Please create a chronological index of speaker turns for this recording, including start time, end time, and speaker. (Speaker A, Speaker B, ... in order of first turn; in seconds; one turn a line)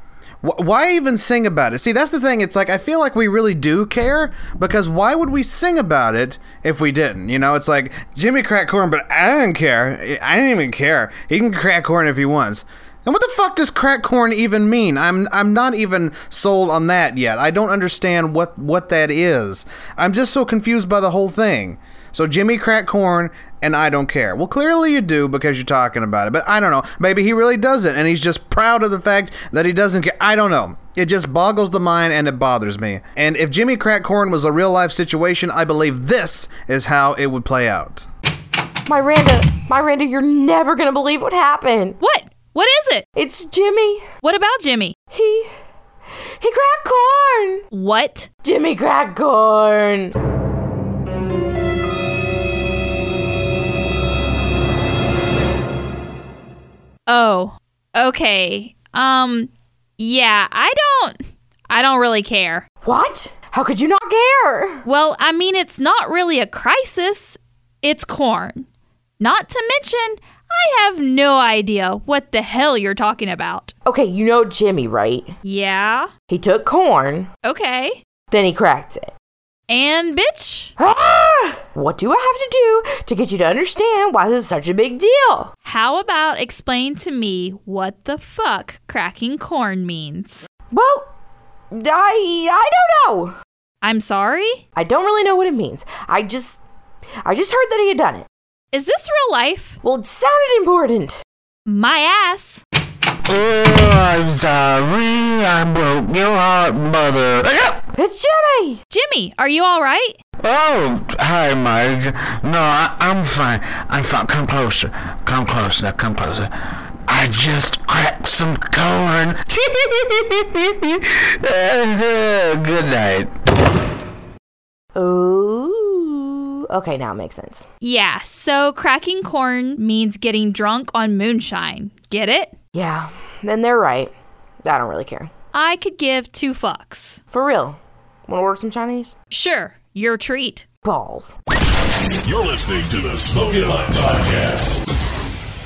Speaker A: 0.4-38.1
Speaker B: 38.9-42.0
Speaker C: 42.0-43.0
Speaker B: 43.1-44.1
Speaker C: 44.2-45.0
Speaker B: 45.1-45.5
Speaker B: 46.4-47.6
Speaker C: 47.7-48.3
Speaker B: 48.4-50.1
Speaker C: 57.1-62.6
Speaker B: 62.8-64.8
Speaker C: 64.8-68.7
Speaker C: 69.2-73.7
Speaker B: 73.8-75.3
Speaker C: 75.4-76.1
Speaker B: 76.3-77.3
Speaker C: 77.4-78.0
Speaker B: 78.3-79.1
Speaker C: 79.7-80.7
Speaker B: 80.8-85.5
Speaker C: 85.6-90.5
Speaker B: 90.7-91.1
Speaker B: 91.7-93.3
Speaker C: 93.8-94.6
Speaker B: 94.7-96.6
Speaker B: 97.2-98.3
Speaker C: 98.7-99.8
Speaker B: 99.8-101.2
Speaker C: 101.7-102.6
Speaker D: 103.3-107.8
Speaker B: 107.9-108.8
Speaker C: 108.9-110.2
Speaker D: 110.4-116.5
Speaker D: 117.1-123.3
Speaker B: 124.9-127.7
Speaker C: 127.8-132.5
Speaker B: 132.7-134.1
Speaker B: 134.6-135.3
Speaker C: 135.5-137.2
Speaker B: 137.3-139.2
Speaker C: 139.3-140.7
Speaker B: 140.8-141.3
Speaker E: 142.2-144.8